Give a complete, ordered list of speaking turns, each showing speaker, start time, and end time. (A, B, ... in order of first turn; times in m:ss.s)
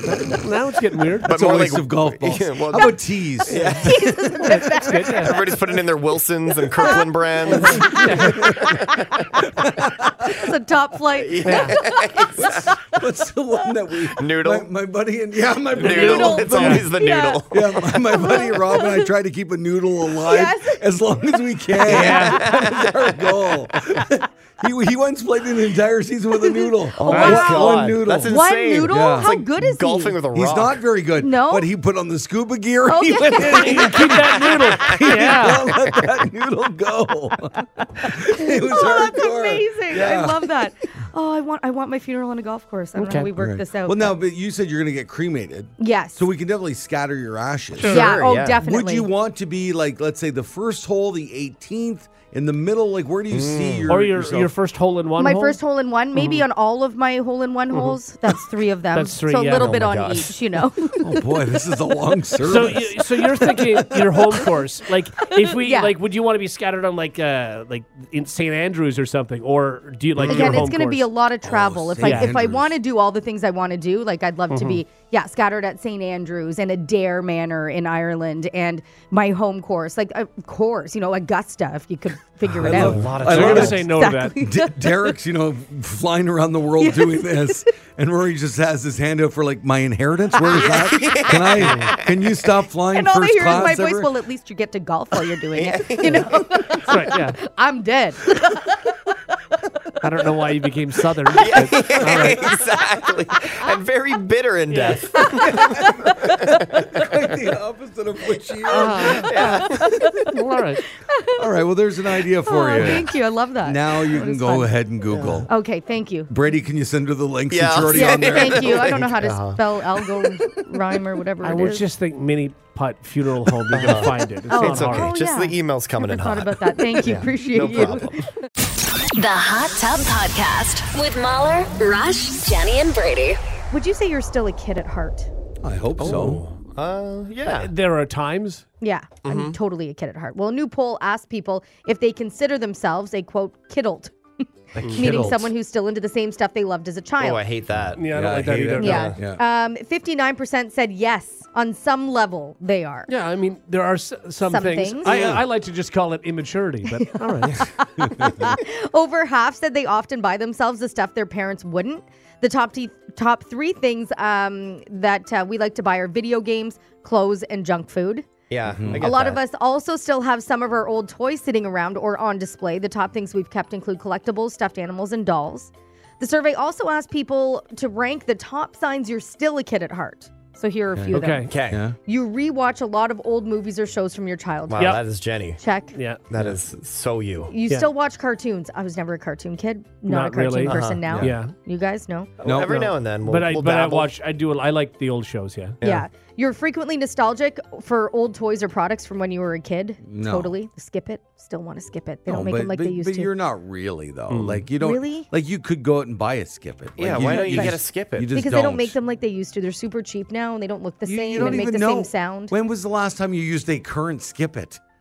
0:00.2-0:01.3 A
0:01.2-0:04.2 B
0:01.2-0:04.4 C
0:03.8-0:05.4 D
0:04.4-0:05.4 A
0:05.0-0:09.3 C
0:06.8-0:08.1 D
0:07.7-0:08.6 A
0:07.9-0:08.7 B
0:09.0-0:09.3 D
0:09.4-0:10.3 B
0:10.2-0:13.0 D
0:11.1-0:12.7 C
0:11.4-0:11.8 A
0:12.4-0:16.9 B
0:14.1-0:14.7 C
0:15.8-0:17.6 C
0:15.8-0:16.8 A
0:15.8-0:19.1 D
0:17.5-0:29.3 B
0:20.2-0:20.8 D
0:21.8-0:22.5 A
0:21.9-0:23.2 C
0:27.0-0:30.8 C
0:27.0-0:30.2 D
0:27.1-0:27.7 A
0:30.3-0:40.6 B
0:31.2-0:31.7 D
0:32.8-0:33.9 D
0:33.4-0:35.8 A
0:34.5-0:35.0 C
0:38.0-0:44.1 D
0:43.0-0:43.3 A
0:43.4-0:54.5 B
0:45.8-0:46.2 D
0:47.8-0:48.2 A
0:47.9-0:49.1 D
0:48.1-0:48.6 C
0:53.3-0:53.9 C
0:53.9-0:55.6 A
0:55.2-1:01.1 D
0:56.1-0:56.4 A
0:57.7-0:58.0 A
0:58.9-0:59.9 A
0:59.6-1:00.3 C
1:01.0-1:04.0 B
1:02.4-1:11.1 A
1:05.3-1:05.9 D
1:10.2-1:10.6 C
1:10.3-1:25.1 D
1:11.4-1:12.7 B
1:12.0-1:12.3 A
1:14.5-1:14.8 A
1:22.5-1:34.1 B
1:22.6-1:23.8 C
1:22.7-1:24.3 A
1:26.8-1:27.6 D
1:30.5-1:31.2 D
1:30.7-1:32.1 C
1:32.9-1:38.9 D
1:35.5-1:36.4 C
1:36.8-1:37.4 A
1:40.0-1:42.4 A
1:41.4-1:47.0 C
1:44.7-1:45.3 A
1:45.2-1:46.5 D
1:46.9-1:50.2 B
1:48.7-1:49.3 A
1:49.0-1:49.9 C
1:49.2-1:50.3 D
1:50.3-1:50.8 A
1:51.0-1:51.4 D
1:51.4-1:55.5 B
1:52.4-1:54.7 D
1:55.1-1:55.4 C
1:55.5-1:56.3 D
1:56.3-1:59.0 B
1:57.5-2:00.6 C
1:57.9-2:01.8 D
2:01.4-2:05.1 A
2:03.7-2:08.3 C
2:04.5-2:08.2 D
2:09.1-2:13.4 E
2:13.7-2:15.3 D
2:15.6-2:16.4 B
2:16.0-2:17.7 C
2:17.5-2:18.6 A
2:18.8-2:24.1 D
2:19.2-2:19.6 C
2:24.7-2:25.5 C
2:24.8-2:25.3 A
2:24.9-2:27.4 D
2:27.2-2:29.2 C
2:28.0-2:29.1 A
2:28.0-2:29.4 B
2:28.8-2:33.1 D
2:33.1-2:37.7 A
2:34.5-2:35.2 D
2:35.0-2:35.4 B
2:37.0-2:48.3 D
2:38.0-2:38.5 B
2:48.5-2:49.4 C
2:48.6-2:49.0 B
2:49.0-3:05.0 D
3:00.9-3:02.0 B
3:01.1-3:01.5 A
3:01.5-3:01.8 C
3:04.7-3:05.6 C
3:05.6-3:05.9 D
3:05.9-3:06.2 A
3:06.3-3:07.5 C
3:07.5-3:12.3 D
3:10.0-3:11.5 A
3:10.7-3:11.1 C
3:11.1-3:11.3 B
3:12.4-3:14.1 C
3:12.4-3:12.9 B
3:13.2-3:15.8 A
3:15.8-3:23.3 D
3:20.0-3:20.5 B
3:22.3-3:28.9 B
3:24.3-3:24.6 A
3:24.8-3:25.3 D
3:27.0-3:28.3 C
3:27.1-3:27.8 A
3:28.3-3:32.5 D
3:31.0-3:34.8 B